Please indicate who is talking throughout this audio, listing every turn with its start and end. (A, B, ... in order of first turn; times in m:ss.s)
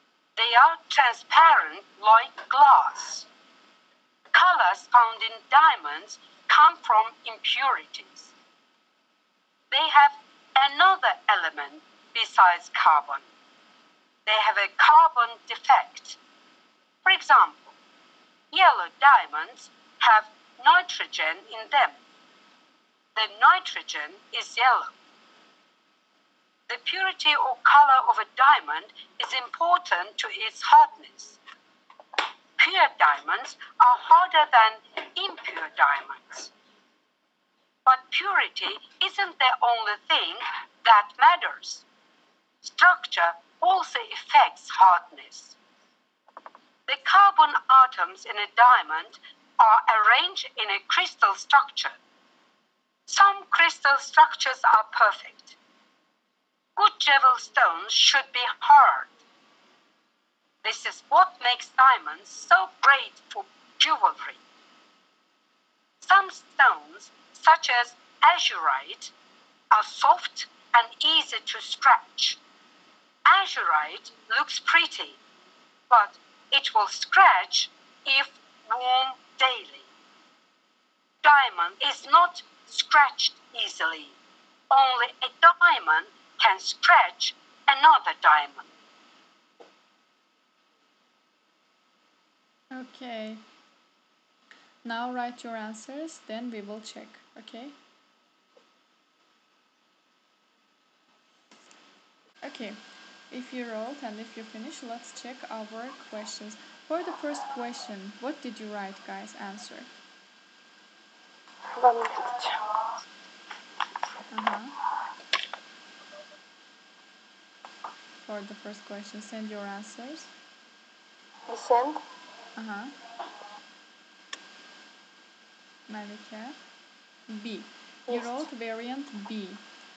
0:00.4-0:03.3 A
0:04.3-0:08.3 A
0:09.7-0:13.3 A
0:14.3-0:16.2 A
0:17.0-0:17.8 A
0:18.5-0:22.0 A
0:23.2-0:25.0 A
0:26.7-0:31.4 A
0:32.6-0:36.5 A
0:37.8-0:41.8 A
0:42.6-0:45.6 A
0:46.9-0:52.0 A
0:53.1-0:55.6 A
0:56.8-0:59.2 A
1:00.6-1:04.4 A
1:06.0-1:09.1 A
1:09.7-1:12.4 A
1:13.3-1:15.2 A
1:15.9-1:19.9 A
1:21.2-1:24.2 A
1:24.7-1:28.7 A
1:32.7-1:33.4 B
1:34.8-1:37.8 B
1:42.4-1:49.9 B
1:51.8-1:52.7 C
1:54.3-1:54.8 B
1:58.2-2:00.3 B
2:01.5-2:02.0 C
2:02.6-2:02.9 B
2:05.9-2:06.6 B
2:07.3-2:09.6 B
2:08.1-2:08.4 C